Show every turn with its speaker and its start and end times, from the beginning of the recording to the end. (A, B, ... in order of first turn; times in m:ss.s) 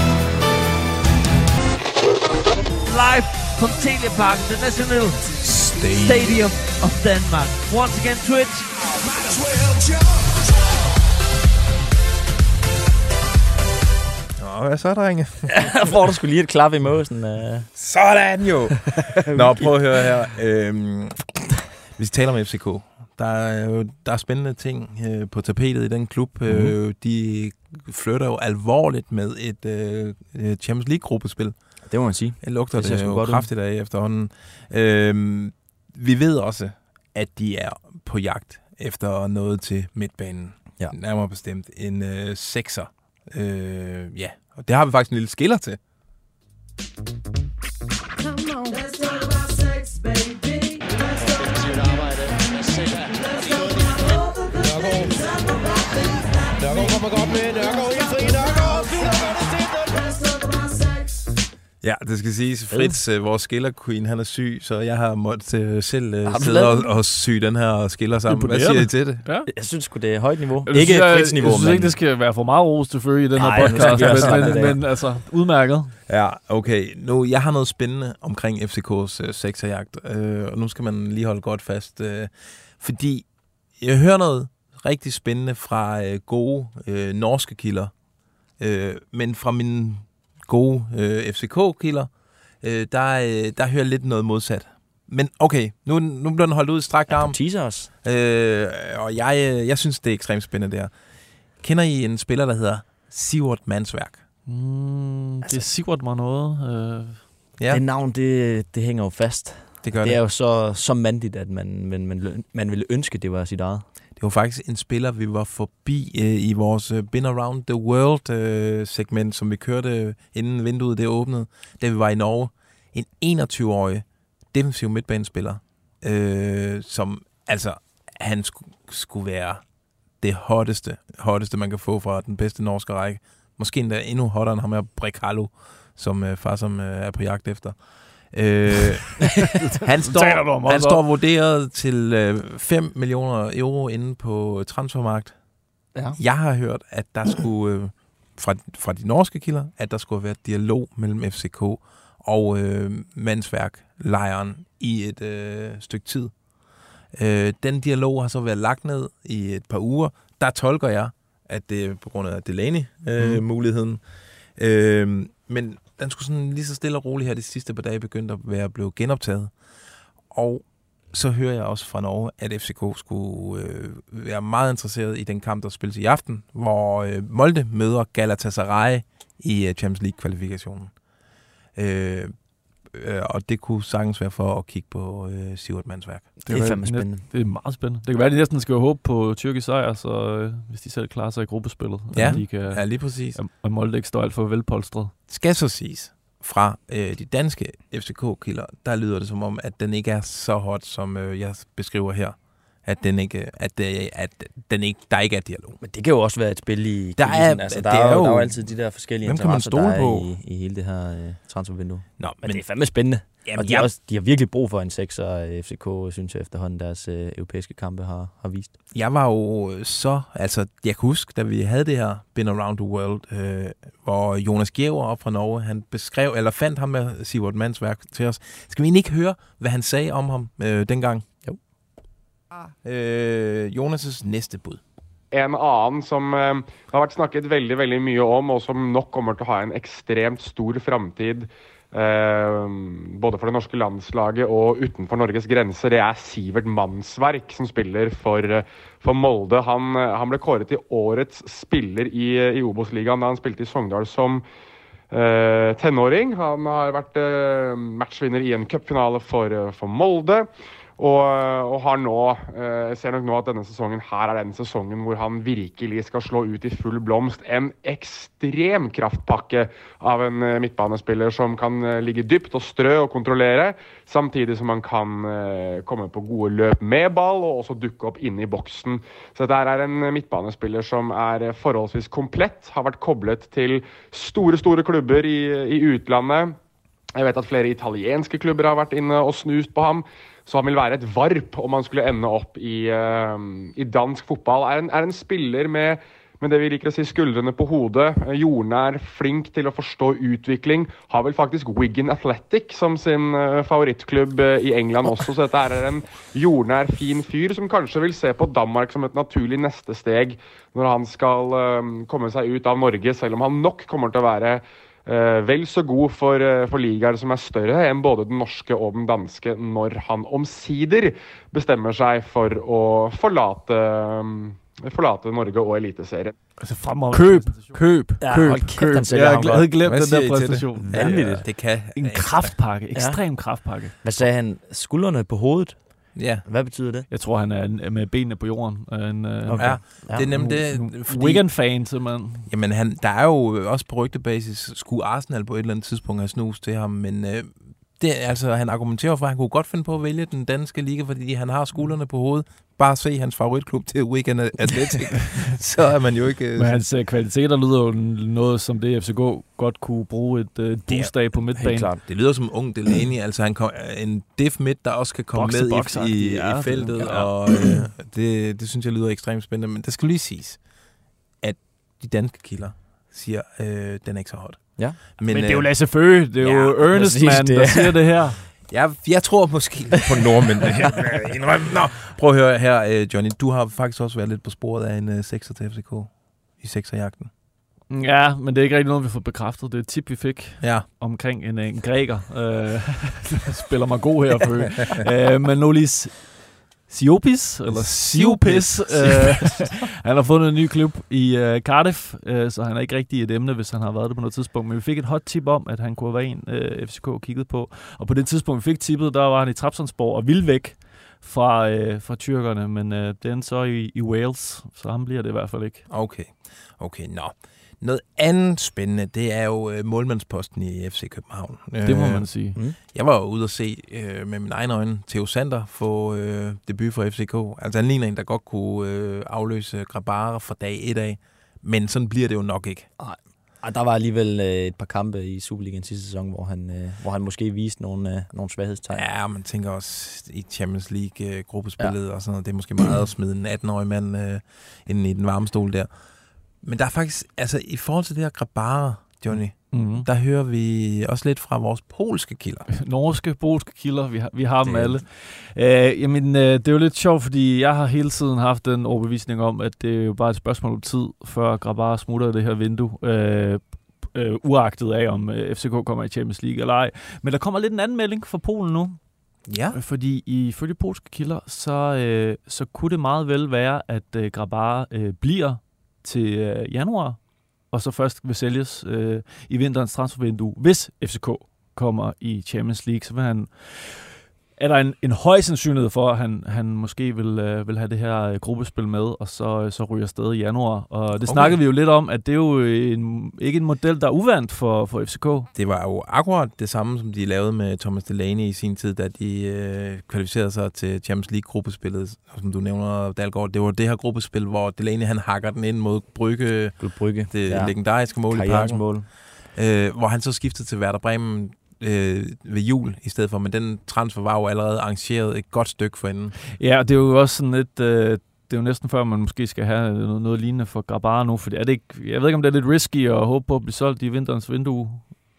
0:02.8-0:09.0 A
0:05.8-0:06.4 B
0:14.4-0:15.7 B
0:15.5-0:17.7 C
0:17.8-0:21.3 B
0:18.9-0:20.1 C
0:22.0-0:31.6 B
0:26.5-0:26.7 C
0:31.8-0:33.5 C
0:32.4-0:45.8 B
1:01.8-1:09.2 B
1:02.7-1:03.0 C
1:06.2-1:06.9 C
1:08.2-1:09.5 D
1:09.5-1:12.0 C
1:10.6-1:16.0 D
1:13.3-1:14.8 C
1:13.6-1:14.6 B
1:16.1-1:23.2 B
1:23.8-1:27.9 B
1:28.6-1:40.9 B
1:37.1-1:37.9 C
1:41.6-1:44.2 B
1:44.4-1:47.4 D
1:47.7-1:53.8 C
1:49.8-1:50.2 B
1:54.2-2:09.6 B
2:10.2-2:25.4 B
2:19.4-2:21.0 D
2:26.2-2:36.3 B
2:37.1-2:49.6 B
2:50.3-3:00.9 B
3:01.7-3:06.3 B
3:06.4-3:07.3 C
3:06.5-3:15.2 D
3:12.1-3:13.4 B
3:12.2-3:12.4 C
3:15.3-3:25.8 B
3:25.8-3:38.7 C
3:27.2-3:30.3 B
3:32.2-3:33.9 B
3:38.9-3:51.3 B
3:52.8-3:54.8 B
3:55.3-4:14.4 E
4:15.1-4:46.6 E
4:47.2-5:26.3 E
5:26.6-5:34.0 D
5:28.2-5:29.7 C
5:29.1-5:32.6 B
5:30.9-5:31.5 C
5:32.9-5:37.1 C
5:36.1-5:36.4 B
5:37.1-5:42.5 D
5:39.4-5:40.4 C
5:39.6-5:41.8 B
5:42.5-5:56.8 B
5:55.2-5:55.5 D
5:56.5-6:02.0 D
6:00.9-6:01.2 B
6:01.5-6:02.0 C
6:02.0-6:10.7 B
6:05.3-6:07.7 D
6:11.4-6:16.8 B
6:14.8-6:15.1 C
6:15.2-6:18.5 D
6:16.9-6:18.0 C
6:18.5-6:27.3 B
6:27.9-6:55.9 D
6:30.6-6:30.9 B
6:37.7-6:39.7 B
6:55.9-7:12.9 B
7:01.8-7:02.6 D
7:13.0-7:19.0 C
7:18.9-7:32.6 B
7:29.7-7:30.1 D
7:32.7-7:49.1 D
7:34.6-7:35.0 C
7:49.4-7:49.8 B
7:49.7-8:15.5 D
8:11.2-8:11.6 B
8:15.5-8:36.3 B
8:26.8-8:29.1 C
8:36.4-8:45.2 D